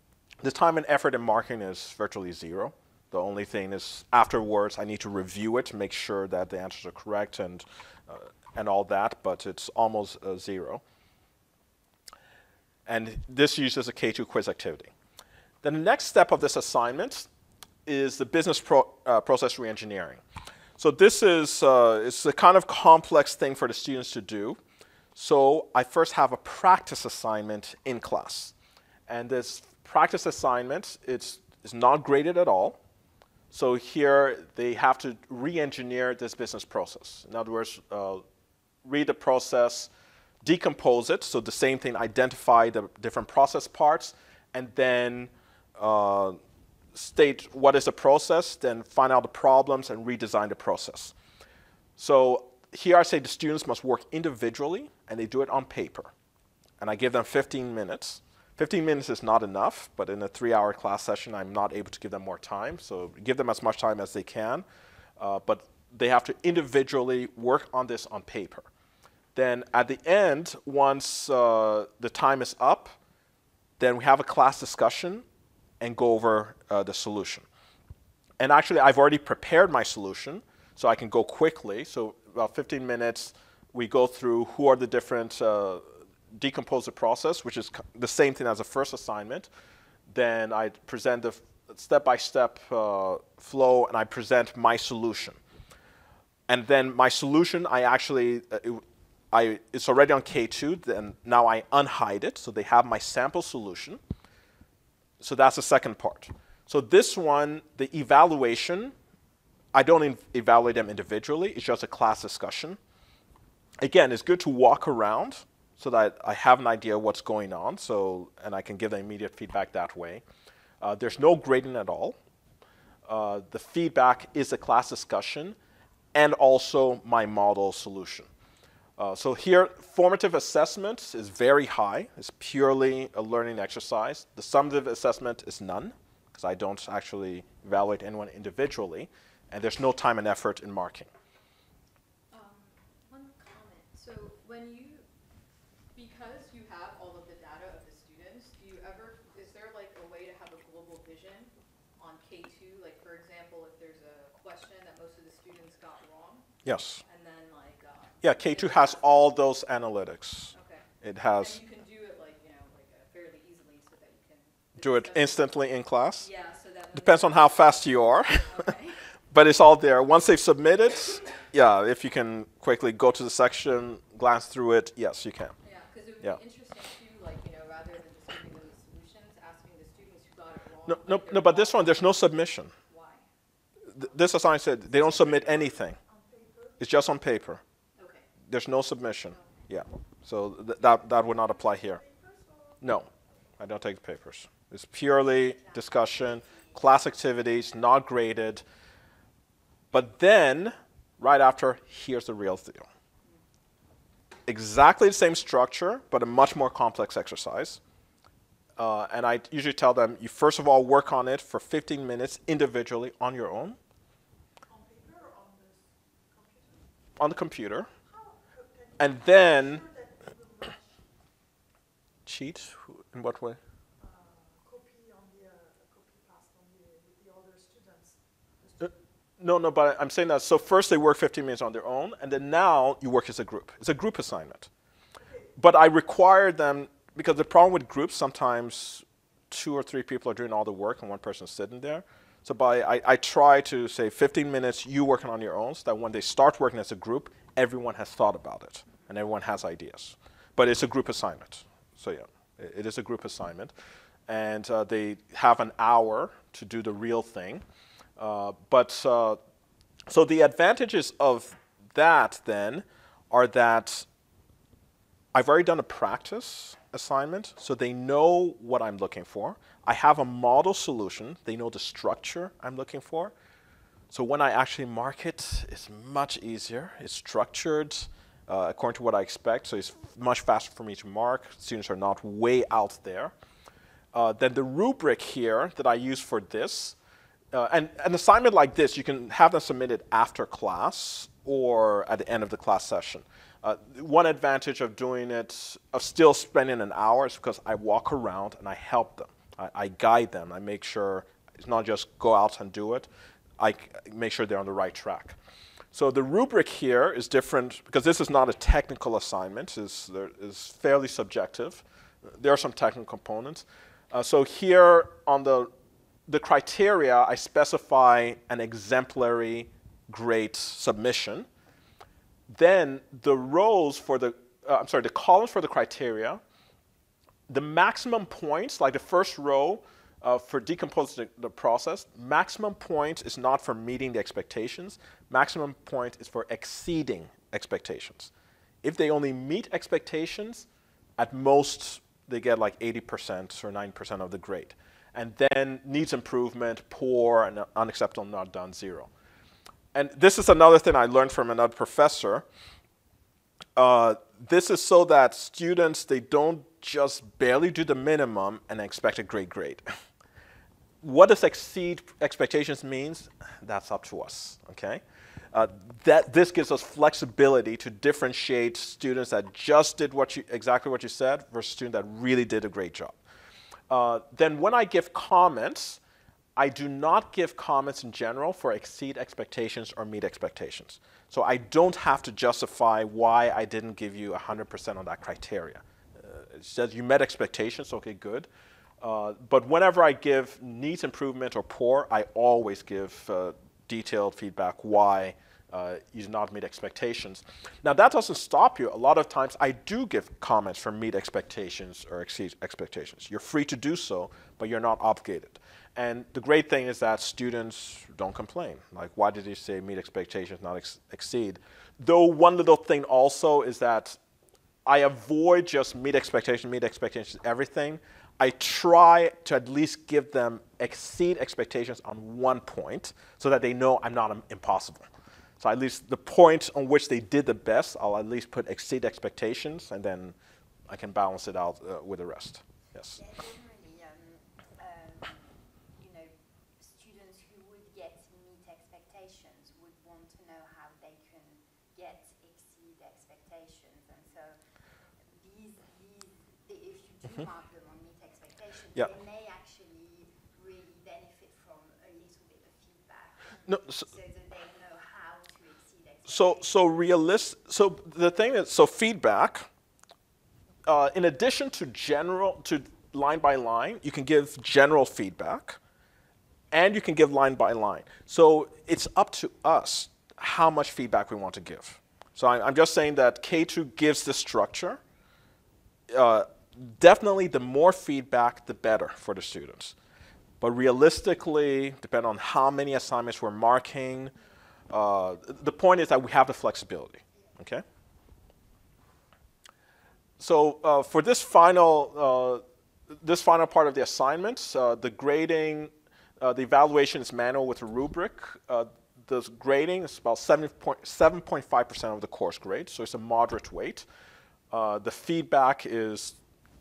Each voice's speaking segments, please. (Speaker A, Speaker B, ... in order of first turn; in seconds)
Speaker A: 0.4-10.8, 12.9-14.9, 15.6-17.3, 17.9-20.2, 20.8-24.6, 25.2-28.5, 29.1-32.8, 33.5-38.2, 38.8-39.9, 40.4-46.4, 46.9-51.1, 52.0-56.1, 56.8-64.7, 65.2-68.7, 69.3-73.0, 73.8-75.2, 75.8-77.5, 78.4-89.5, 90.1-95.4, 96.5-104.0, 105.2-108.9, 109.7-112.8, 113.8-120.2, 120.8-122.2, 123.1-125.6, 126.1-128.3, 129.0-141.1, 156.6-157.0, 158.2-161.6, 164.8-166.3, 166.9-168.7, 169.3-175.5, 180.9-182.7, 183.9-186.0, 186.8-187.6, 188.5-192.0, 192.8-198.6, 199.9-202.9, 204.5-207.8, 208.8-213.8, 217.2-217.9, 219.0-219.8, 222.3-223.6, 228.8-234.7, 235.6-253.7, 254.3-257.6, 258.2-259.4, 260.1-264.1, 265.3-273.3, 274.1-283.3, 284.1-287.0, 287.5-305.4, 305.9-315.7, 316.3-321.5, 322.5-326.4, 327.5-338.3, 338.8-340.7, 341.2-349.1, 349.9-352.5, 353.8-359.8, 361.0-365.0, 365.5-373.2, 373.9-376.0, 376.6-388.5, 389.0-414.2, 414.9-425.1, 425.6-430.4, 430.9-433.2, 453.7-454.1, 456.3-459.7, 460.9-465.8, 466.7-475.0, 476.1-479.9, 480.6-484.3, 484.9-487.8, 490.4-492.6, 493.2-504.1, 504.7-506.4
Speaker B: 142.3-145.1, 145.9-156.5, 157.1-159.4, 160.5-165.5, 166.2-169.0, 175.6-182.3, 182.9-183.3, 188.0-188.3
Speaker C: 184.9-186.8, 191.2-192.8, 214.7-216.8, 218.1-221.0, 224.0-228.9, 235.2-235.6
Speaker D: 195.4-197.1, 433.1-444.6, 445.2-456.8